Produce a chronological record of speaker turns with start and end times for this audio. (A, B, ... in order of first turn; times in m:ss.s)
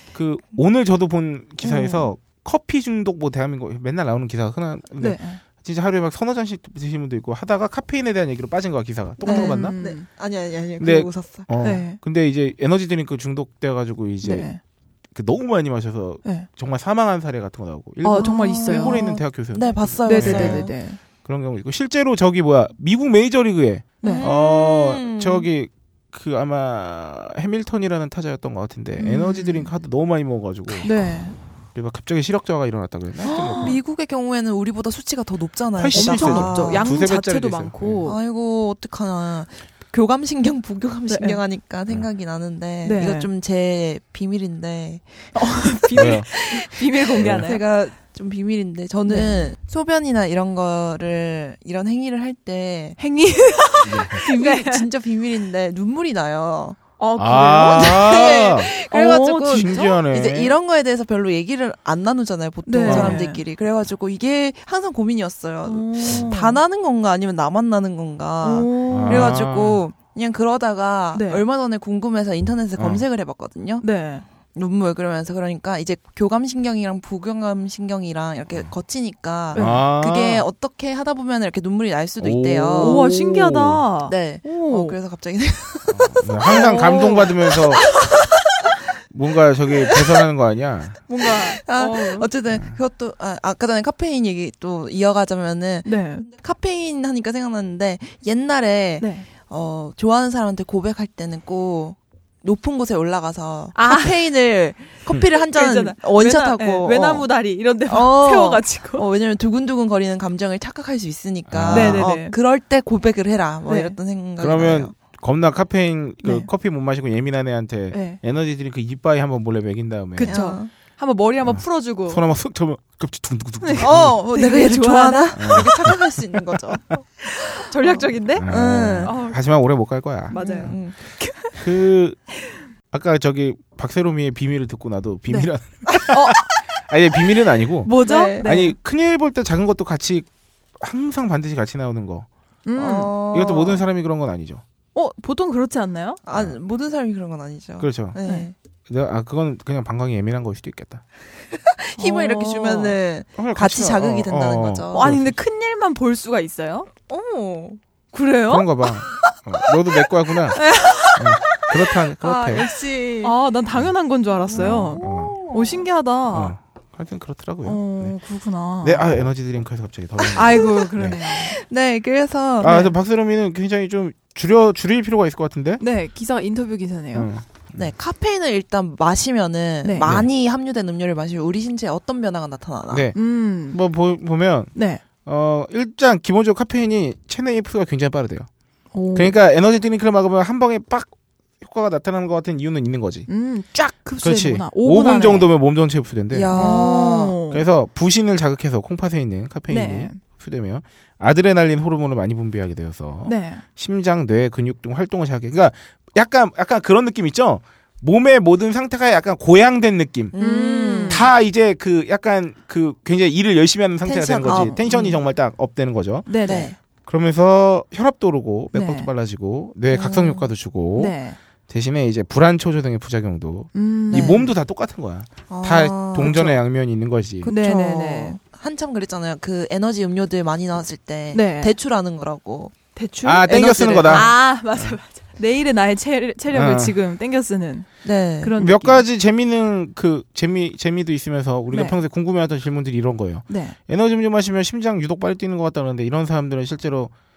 0:00.1-0:09.8 A
0:01.6-0:02.1 B
0:05.0-0:05.4 C
0:09.2-0:10.0 C
0:09.2-0:11.5 B
0:10.8-0:14.5 A
0:11.6-0:12.0 C
0:14.2-0:14.6 C
0:15.1-0:20.7 A
0:18.0-0:19.0 C
0:18.2-0:20.7 B
0:20.0-0:21.0 C
0:21.2-0:30.9 A
0:24.0-0:24.3 C
0:24.0-0:25.5 B
0:29.0-0:29.7 B
0:30.8-0:31.4 C
0:31.7-0:33.8 A
0:33.2-0:37.0 B
0:33.3-0:33.8 C
0:35.8-0:38.0 A
0:35.9-0:38.2 C
0:38.0-0:53.0 B
0:41.1-0:41.4 C
0:42.8-0:43.3 C
0:45.3-0:47.6 C
0:45.9-0:46.3 A
0:47.2-0:47.5 A
0:49.1-0:49.5 C
0:53.0-0:54.8 C
0:53.8-0:56.8 B
0:53.8-0:54.2 A
0:57.0-1:00.0 C
0:57.2-0:58.7 A
0:57.7-1:13.9 B
0:59.5-1:00.6 A
1:02.6-1:03.4 C
1:02.8-1:03.2 A
1:05.6-1:06.6 C
1:08.4-1:09.4 C
1:08.9-1:09.8 A
1:11.1-1:11.4 C
1:12.8-1:13.0 A
1:13.8-1:14.2 C
1:14.5-1:23.1 B
1:19.5-1:19.8 C
1:19.5-1:20.4 A
1:22.2-1:23.8 A
1:22.8-1:25.0 C
1:24.0-1:28.0 B
1:25.9-1:27.9 A
1:26.5-1:27.8 C
1:29.1-1:31.0 A
1:31.1-1:32.3 C
1:31.2-1:47.3 B
1:32.5-1:32.8 A
1:35.8-1:36.3 C
1:39.0-1:39.3 C
1:43.7-1:44.2 C
1:45.3-1:49.0 C
1:47.8-1:54.9 B
1:51.5-1:52.1 A
1:51.7-1:52.4 C
1:53.7-1:53.9 C
1:54.4-2:00.4 A
1:57.9-1:58.2 C
2:00.2-2:02.2 C
2:00.2-2:00.7 B
2:01.4-2:04.2 A
2:03.6-2:05.9 C
2:03.8-2:09.2 B
2:05.3-2:06.2 A
2:07.2-2:08.5 C
2:08.4-2:10.8 A
2:09.0-2:09.4 C
2:10.3-2:11.6 C
2:10.3-2:11.0 B
2:11.6-2:12.2 A
2:12.4-2:12.6 C
2:12.9-2:22.3 A
2:16.1-2:16.5 C
2:17.8-2:18.7 C
2:17.9-2:18.6 B
2:22.6-2:23.1 C
2:22.8-2:23.8 B
2:23.3-2:24.6 A
2:24.9-2:26.2 C
2:26.2-2:28.5 B
2:26.3-2:26.6 A
2:27.8-2:28.2 A
2:28.9-2:31.0 A
2:31.5-2:35.1 B
2:32.0-2:33.0 C
2:33.4-2:35.4 A
2:34.9-2:36.9 C
2:37.1-2:37.8 B
2:38.1-2:38.7 C
2:38.5-2:40.6 A
2:40.6-2:41.2 C
2:41.1-2:42.7 A
2:41.5-2:43.3 B
2:43.2-2:46.5 C
2:44.5-2:45.8 B
2:44.6-2:45.4 A
2:46.3-2:48.2 A
2:47.6-2:49.1 C
2:48.8-2:51.2 A
2:50.3-2:51.5 C
2:50.4-2:52.9 B
2:52.6-2:55.8 A
2:52.6-2:52.9 C
2:55.8-2:57.3 C
2:57.1-2:57.9 A
2:57.8-3:03.1 B
2:59.8-3:00.1 C
3:00.0-3:00.3 A
3:02.9-3:04.7 A
3:03.1-3:03.8 C
3:04.7-3:05.0 C
3:05.2-3:08.5 A
3:08.9-3:09.3 C
3:09.1-3:13.3 A
3:13.3-3:15.5 C
3:14.2-3:16.8 A
3:16.3-3:17.4 B
3:16.5-3:17.6 C
3:17.5-3:30.3 A
3:19.7-3:20.2 C
3:23.2-3:23.6 C
3:30.3-3:31.3 B
3:30.4-3:31.3 C
3:31.1-3:36.3 A
3:34.0-3:35.1 B
3:34.4-3:35.2 C
3:36.3-3:36.7 C
3:36.4-3:36.7 B
3:37.0-3:41.1 A
3:38.7-3:39.1 C
3:39.9-3:40.5 B
3:41.0-3:41.4 C
3:41.7-3:47.5 A
3:43.7-3:44.4 C
3:44.1-3:44.5 B
3:45.5-3:46.6 B
3:47.4-3:52.7 B
3:47.4-3:48.4 C
3:51.3-3:51.7 C
3:53.0-3:57.9 C
3:53.2-3:55.0 A
3:53.5-3:54.3 B
3:56.5-3:57.0 A
3:58.0-3:58.6 B
3:58.4-3:59.0 C
3:58.6-4:07.1 A
4:01.7-4:02.0 C
4:03.5-4:03.8 C